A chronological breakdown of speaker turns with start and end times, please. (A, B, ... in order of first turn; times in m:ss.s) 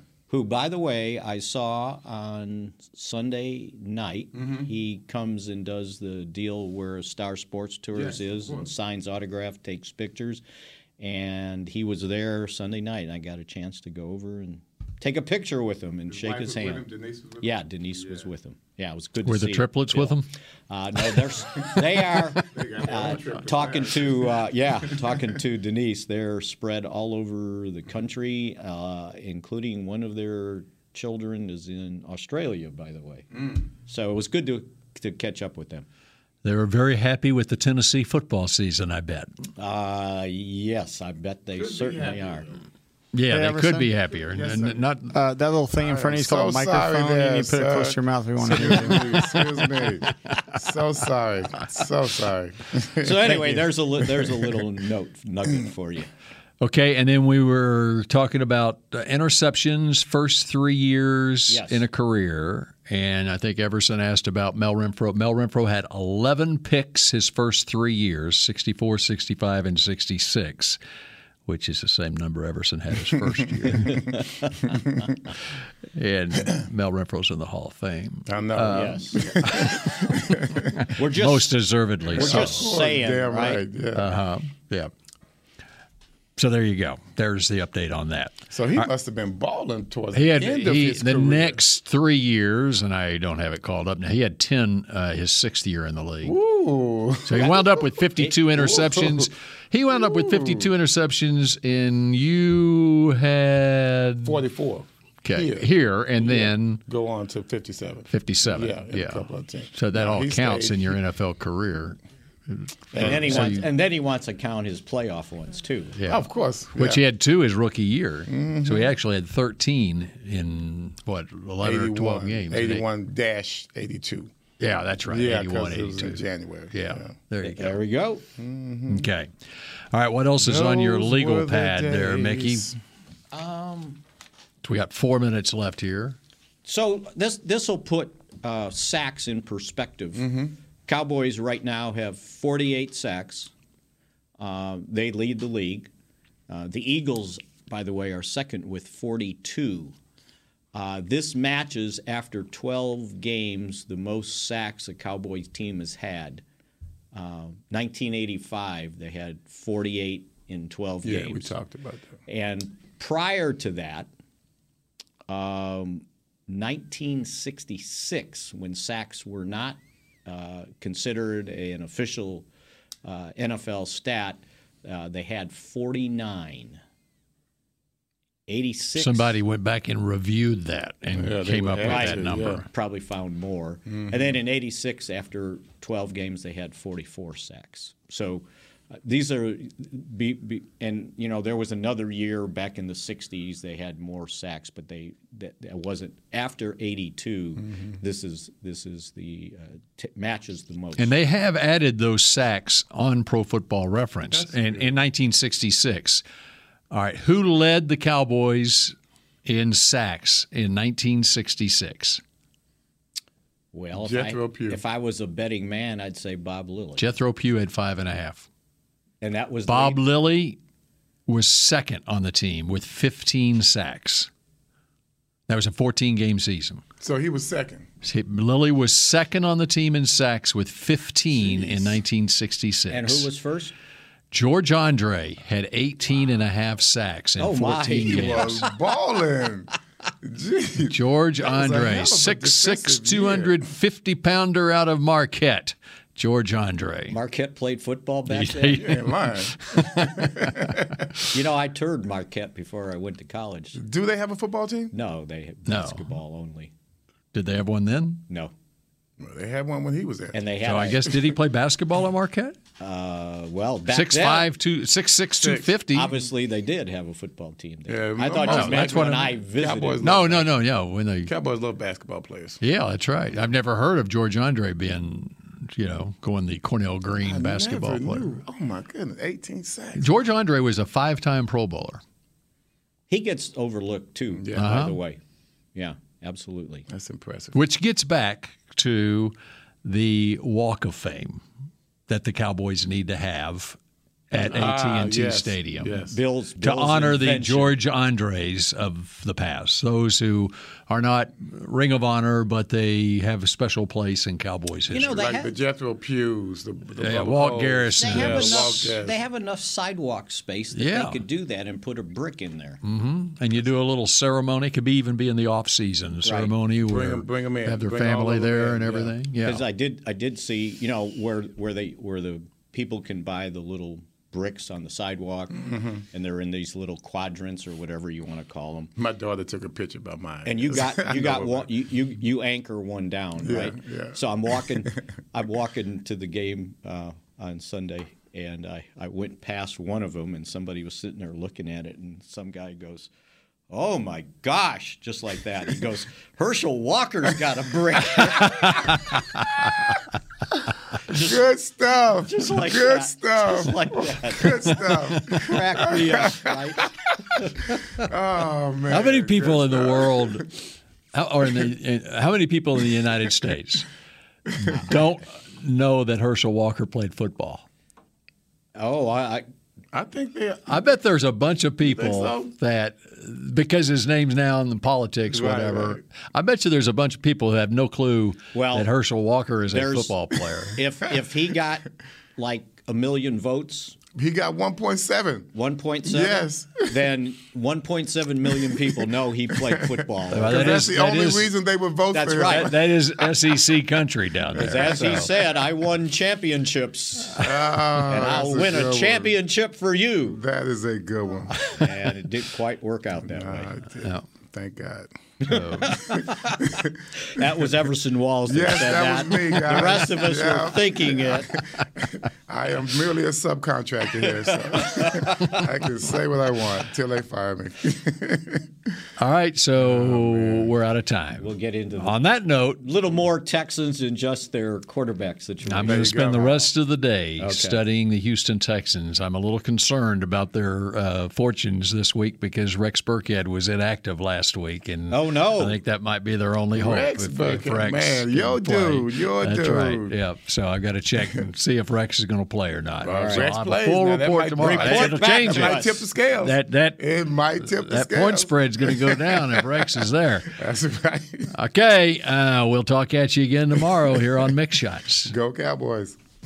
0:00.3-0:10.4 A
0:04.4-0:04.7 B
0:07.9-0:08.7 B
0:11.0-0:16.8 A
0:16.1-0:18.3 B
0:17.4-0:20.2 A
0:19.2-0:20.3 C
0:20.7-0:35.9 A
0:21.6-0:25.3 B
0:33.3-0:33.6 B
0:36.4-0:39.3 C
0:39.6-0:42.5 A
0:41.6-0:42.6 B
0:43.1-0:45.1 C
0:43.3-0:43.9 D
0:44.3-0:44.8 B
0:45.1-0:49.5 D
0:45.8-0:53.7 B
0:53.0-0:56.1 A
0:56.6-1:10.8 C
1:01.5-1:01.8 A
1:11.4-1:14.2 C
1:13.7-1:14.1 B
1:14.7-1:15.0 B
1:15.9-1:19.9 C
1:18.3-1:20.9 B
1:18.7-1:19.5 A
1:20.8-1:22.6 C
1:20.9-1:21.5 A
1:22.1-1:24.2 B
1:22.1-1:23.6 A
1:23.9-1:24.9 C
1:26.4-1:28.9 C
1:28.5-1:31.6 B
1:30.1-1:36.4 C
1:36.2-1:37.5 B
1:37.2-1:44.4 C
1:37.3-1:37.6 A
1:38.5-1:39.3 B
1:39.9-1:40.7 B
1:44.2-1:51.0 B
1:45.2-1:46.8 C
1:48.1-1:52.0 C
1:52.5-1:53.7 C
1:52.9-1:53.6 B
1:53.0-1:56.0 A
1:56.0-1:56.2 C
1:56.1-1:57.0 B
1:56.8-2:02.8 C
1:58.3-1:58.9 B
2:01.6-2:04.3 B
2:04.6-2:07.8 C
2:05.1-2:07.1 B
2:07.4-2:08.2 A
2:08.4-2:09.1 B
2:08.9-2:09.3 C
2:09.9-2:12.7 C
2:10.4-2:12.8 B
2:13.3-2:14.0 A
2:14.6-2:16.2 C
2:16.6-2:20.3 A
2:20.2-2:20.5 B
2:20.8-2:23.5 A
2:24.4-2:25.9 A
2:26.5-2:30.0 A
2:30.7-2:36.4 A
2:37.1-2:41.5 A
2:41.0-2:42.2 B
2:42.3-2:44.1 A
2:45.3-2:52.4 A
2:53.0-2:56.8 A
2:58.5-2:59.3 A
2:59.0-3:02.6 C
3:01.1-3:02.6 B
3:01.8-3:21.1 A
3:21.0-3:26.2 C
3:24.3-3:24.9 B
3:26.9-3:32.2 C
3:33.7-3:37.1 A
3:34.0-3:34.8 B
3:37.0-3:38.5 C
3:39.2-3:40.0 A
3:39.7-3:40.6 C
3:41.3-3:44.3 C
3:45.5-3:46.8 C
3:47.0-3:47.9 B
3:48.0-3:53.3 C
3:51.3-3:52.0 B
3:52.9-3:53.7 A
3:54.3-3:58.7 C
3:57.4-3:58.7 A
3:58.1-3:59.7 B
4:00.2-4:03.6 B
4:00.9-4:07.2 C
4:07.1-4:08.8 A
4:08.3-4:10.8 C
4:08.8-4:11.0 B
4:11.3-4:13.8 A
4:13.8-4:14.9 B
4:14.9-4:16.7 A
4:15.7-4:16.0 C
4:17.3-4:18.2 C
4:19.2-4:20.4 B
4:20.3-4:21.0 A
4:20.6-4:22.6 C
4:22.8-4:24.5 A
4:23.9-4:26.1 C
4:25.4-4:25.7 B
4:25.9-4:30.1 A
4:27.9-4:30.5 B
4:28.4-4:29.3 C
4:30.0-4:31.3 C
4:31.3-4:32.6 B
4:32.6-4:38.4 C
4:37.2-4:40.2 B
4:40.0-4:42.0 C
4:43.1-4:45.2 A
4:44.4-4:44.7 B
4:44.5-4:45.0 C
4:45.7-4:46.8 A
4:46.9-4:47.5 B
4:47.5-4:51.4 C
4:52.1-4:53.8 C
4:54.3-4:56.0 C
4:54.4-4:56.2 B
4:55.9-4:57.7 A
4:56.6-5:05.1 C
5:04.9-5:05.5 A
5:05.1-5:09.2 B
5:07.0-5:08.9 C
5:08.0-5:12.8 A
5:10.8-5:11.2 C
5:12.8-5:19.6 C
5:16.2-5:16.5 A
5:16.8-5:19.1 B
5:19.4-5:28.9 A
5:25.6-5:26.0 B
5:29.0-5:31.7 B
5:30.4-5:43.1 A
5:33.4-5:34.8 B
5:43.7-5:48.7 A
5:51.1-5:51.4 A
5:51.1-6:00.5 B
5:52.2-5:56.8 A
5:58.9-6:00.5 C
6:01.1-6:03.9 C
6:04.6-6:07.6 C
6:08.8-6:09.4 A
6:09.9-6:10.8 B
6:10.7-6:20.8 C
6:11.8-6:12.5 B
6:15.3-6:16.0 B
6:18.5-6:18.9 A
6:19.7-6:20.2 A
6:20.8-6:24.0 A
6:24.1-6:25.5 B
6:25.5-6:30.9 A
6:26.0-6:27.0 B
6:29.7-6:33.2 B
6:30.3-6:31.5 C
6:32.1-6:32.8 A
6:32.4-6:35.3 C
6:34.6-6:35.3 B
6:34.6-6:37.5 A
6:37.4-6:39.3 B
6:38.0-6:40.4 A
6:40.3-6:41.8 B
6:41.7-6:43.7 A
6:43.2-6:47.1 B
6:45.5-6:45.9 C
6:45.5-6:46.3 A
6:47.2-6:51.5 A
6:48.5-6:59.0 B
6:54.7-6:55.5 A
6:59.2-7:02.8 C
6:59.8-7:00.7 B
7:01.4-7:02.2 A
7:02.8-7:06.3 A
7:05.6-7:27.0 C
7:05.8-7:06.7 B
7:07.4-7:07.8 A
7:15.1-7:15.8 A
7:16.7-7:20.1 B
7:23.0-7:29.9 B
7:23.1-7:23.5 A
7:24.6-7:26.0 A
7:27.6-7:30.5 C
7:30.5-7:31.5 B
7:31.5-7:35.3 C
7:35.3-7:36.2 B